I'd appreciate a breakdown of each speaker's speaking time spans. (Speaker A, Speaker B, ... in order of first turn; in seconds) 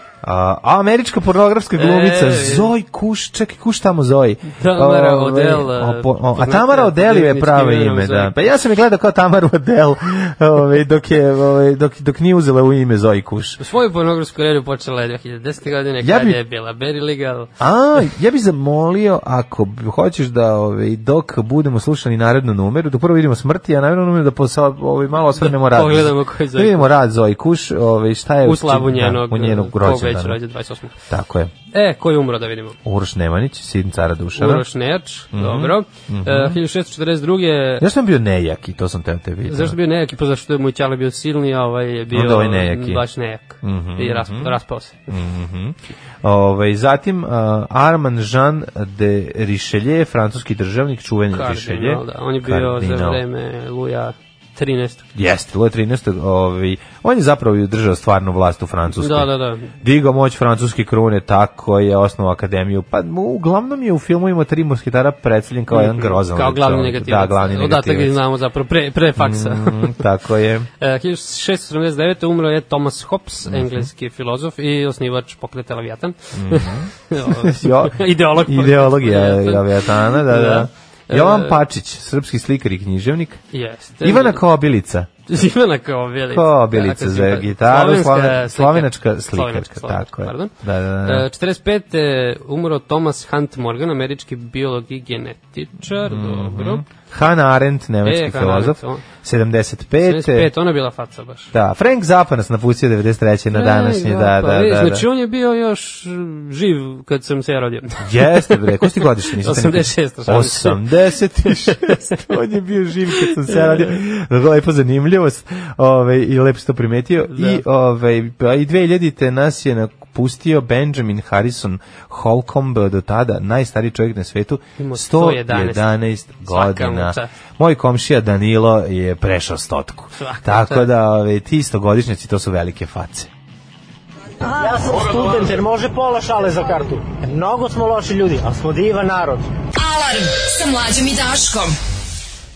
Speaker A: 0.2-13.6, 16.0-16.4, 17.6-30.4, 31.1-31.5, 32.9-34.6, 35.3-36.6, 37.8-39.8, 42.1-43.0, 43.6-44.6, 45.1-53.2, 55.1-68.2, 69.2-70.7, 73.5-73.9, 76.3-83.4, 84.0-85.1, 86.3-91.3, 95.9-100.5, 101.5-105.1, 108.0-133.3
Speaker B: 1.8-2.7, 4.5-8.3, 13.6-17.5, 25.4-26.9, 28.4-31.0, 31.7-32.8, 34.4-37.9, 39.5-45.1, 51.3-55.1, 59.0-59.7, 65.7-70.0, 70.8-81.6, 83.5-84.4, 85.3-90.5, 91.0-96.8, 98.0-99.0, 100.0-101.5, 103.5-110.8, 111.5-112.3, 113.1-113.8, 117.3-117.6, 124.8-125.9, 126.5-127.3, 130.1-130.9
Speaker C: 134.4-139.5
Speaker D: 139.8-141.8